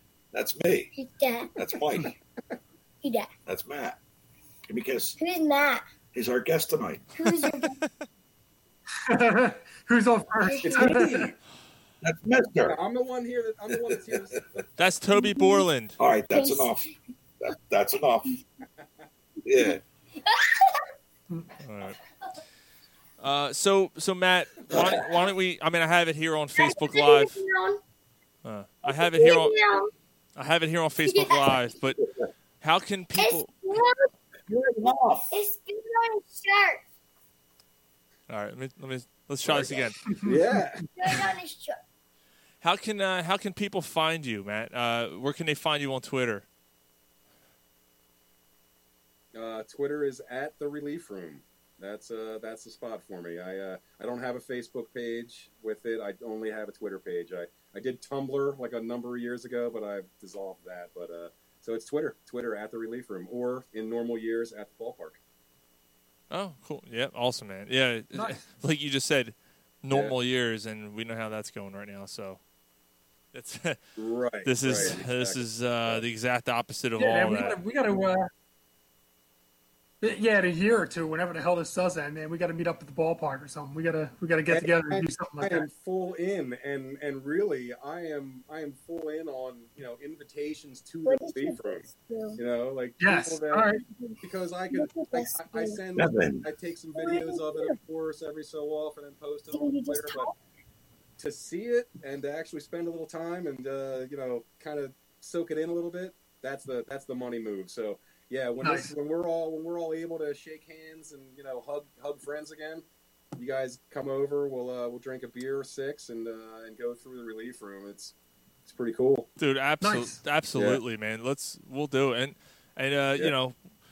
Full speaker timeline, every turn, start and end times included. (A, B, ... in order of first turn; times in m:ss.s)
0:00.3-0:00.9 A
0:00.9-0:01.8 B
0:01.6-0:02.1 A
0:03.0-0:03.3 B
0:03.5-0:04.0 A
0:04.7-0:05.2 A
0:05.2-0:05.9 B
0:06.1-0:07.1 A
0:07.2-0:07.8 B
0:09.0-0:11.3 C
0:10.4-0:11.2 B
0:10.6-0:11.4 D
0:12.0-0:12.8 A
0:12.6-0:14.5 D
0:14.8-0:16.0 E
0:15.1-0:15.7 B
0:16.0-0:16.9 A
0:16.3-0:17.0 B
0:17.4-0:18.4 A
0:19.4-0:19.8 A
0:21.6-0:22.0 E
0:23.2-0:27.4 E
0:24.7-0:25.0 A
0:26.6-0:27.8 B
0:28.4-0:29.6 E
0:28.8-0:29.9 B
0:30.4-0:32.0 E
0:31.0-0:31.7 B
0:32.6-0:33.5 E
0:33.2-0:34.1 B
0:34.5-0:35.3 A
0:35.3-0:36.8 B
0:38.3-0:40.0 E
0:39.4-0:39.9 A
0:40.1-0:40.4 C
0:40.2-0:40.8 D
0:41.0-0:41.8 B
0:42.6-0:46.5 E
0:49.3-1:05.2 D
1:06.3-1:12.4 E
1:08.1-1:08.5 C
1:13.3-1:13.8 E
1:14.0-1:16.0 D
1:14.4-1:17.6 E
1:17.0-1:18.3 C
1:20.0-1:25.7 C
1:24.5-1:40.3 D
1:31.0-1:32.4 B
1:33.0-1:33.8 C
1:33.8-1:35.8 B
1:36.0-1:36.4 A
1:37.0-1:37.8 B
1:39.5-1:40.3 B
1:41.2-1:52.8 D
1:48.6-1:48.9 C
1:53.4-1:58.1 D
1:58.7-1:59.3 D
1:59.4-2:03.6 E
1:59.8-2:00.2 C
2:00.5-2:00.8 D